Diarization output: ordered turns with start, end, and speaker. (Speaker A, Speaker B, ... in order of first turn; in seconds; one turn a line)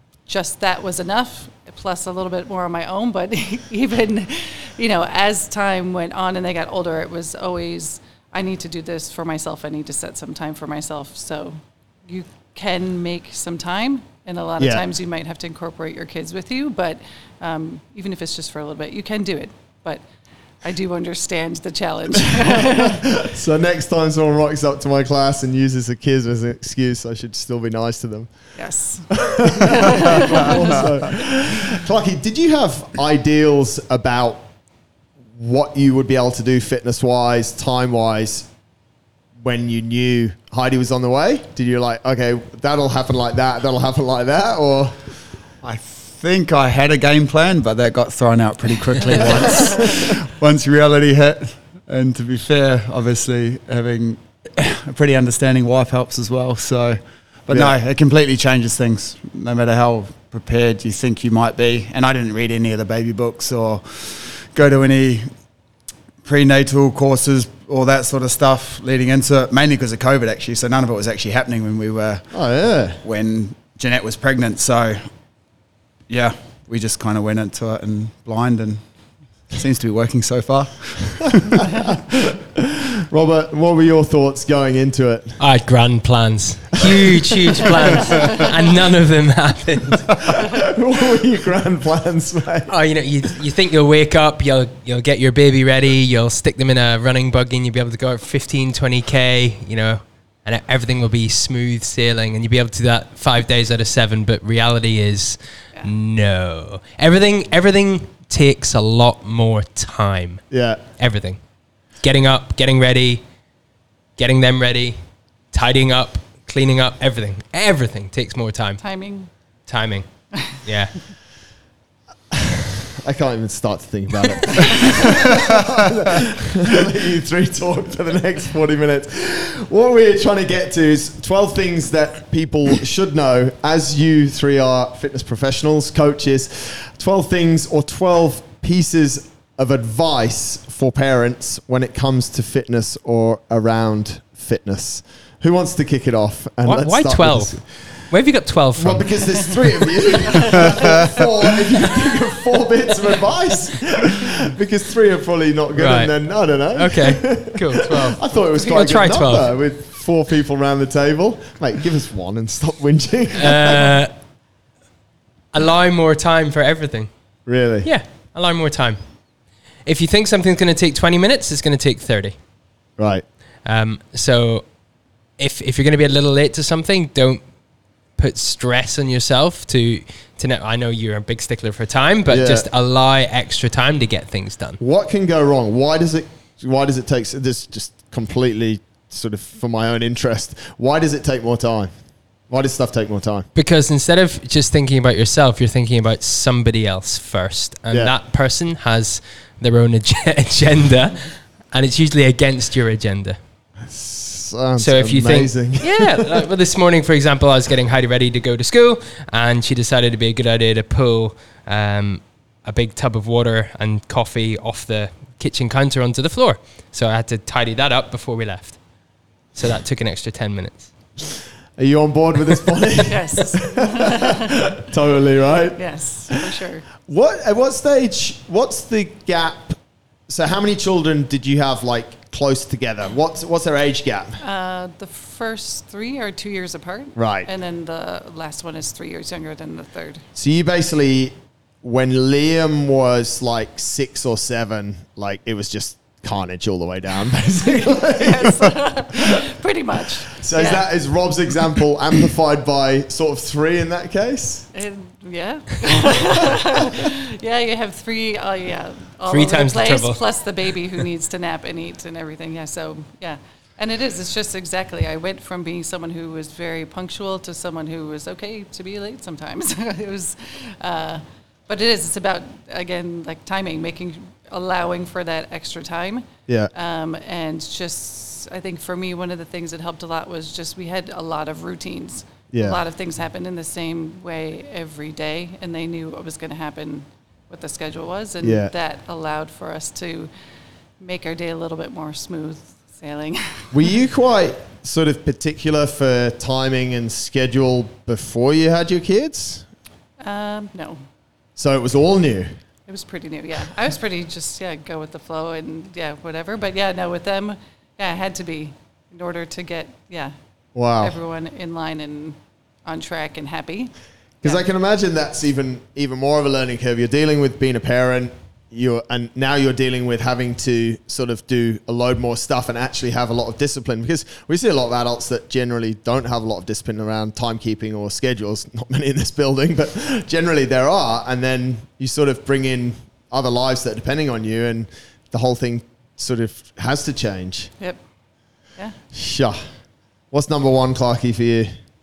Speaker A: 0.2-20.0
Speaker A: 20.6-23.0
Speaker B: 22.8-28.5
Speaker A: 28.5-30.8
Speaker B: 29.1-34.5
Speaker B: 35.3-38.5
Speaker B: 39.4-45.1
Speaker C: 45.6-65.3
Speaker B: 57.5-57.8
Speaker C: 66.2-75.1
Speaker B: 72.3-73.0
Speaker C: 76.1-78.9
Speaker C: 79.5-81.9
Speaker B: 82.5-85.4
Speaker D: 85.4-90.3
Speaker B: 86.8-88.2
Speaker C: 88.0-88.4
Speaker B: 90.4-92.7
Speaker D: 92.7-110.4
Speaker B: 110.5-110.8
Speaker D: 111.0-111.4
Speaker D: 112.0-113.2
Speaker D: 114.2-115.0
Speaker D: 115.5-118.9
Speaker A: 118.8-119.3
Speaker D: 119.7-121.1
Speaker B: 122.3-147.9
Speaker D: 146.6-149.7
Speaker B: 148.8-164.0
Speaker C: 150.6-151.1
Speaker D: 155.8-156.1
Speaker D: 156.7-159.5
Speaker D: 163.3-164.1
Speaker D: 165.5-167.1
Speaker B: 167.4-167.9
Speaker D: 167.8-169.0
Speaker D: 169.8-172.3
Speaker B: 173.0-173.2
Speaker D: 173.6-174.7
Speaker D: 175.4-177.4
Speaker D: 178.2-184.8
Speaker B: 182.3-182.7
Speaker B: 184.8-191.9
Speaker B: 192.5-193.5
Speaker D: 193.5-203.4
Speaker B: 203.8-206.3
Speaker D: 204.8-218.8
Speaker D: 219.5-220.9
Speaker B: 221.8-224.0
Speaker A: 223.1-224.4
Speaker B: 224.7-226.4
Speaker A: 225.8-226.8
Speaker B: 227.0-234.4
Speaker A: 234.4-240.2
Speaker B: 237.2-237.5
Speaker B: 240.3-248.8
Speaker A: 247.8-250.9
Speaker B: 250.3-254.7
Speaker A: 254.7-290.3
Speaker D: 259.3-260.5
Speaker B: 282.5-282.8
Speaker B: 288.4-288.7
Speaker A: 291.0-293.7
Speaker B: 293.7-299.7
Speaker A: 300.2-301.0
Speaker B: 301.6-302.5
Speaker A: 302.9-310.4
Speaker B: 310.7-311.2
Speaker A: 311.0-314.6
Speaker B: 314.4-337.7
Speaker B: 339.1-339.6
Speaker B: 340.3-341.7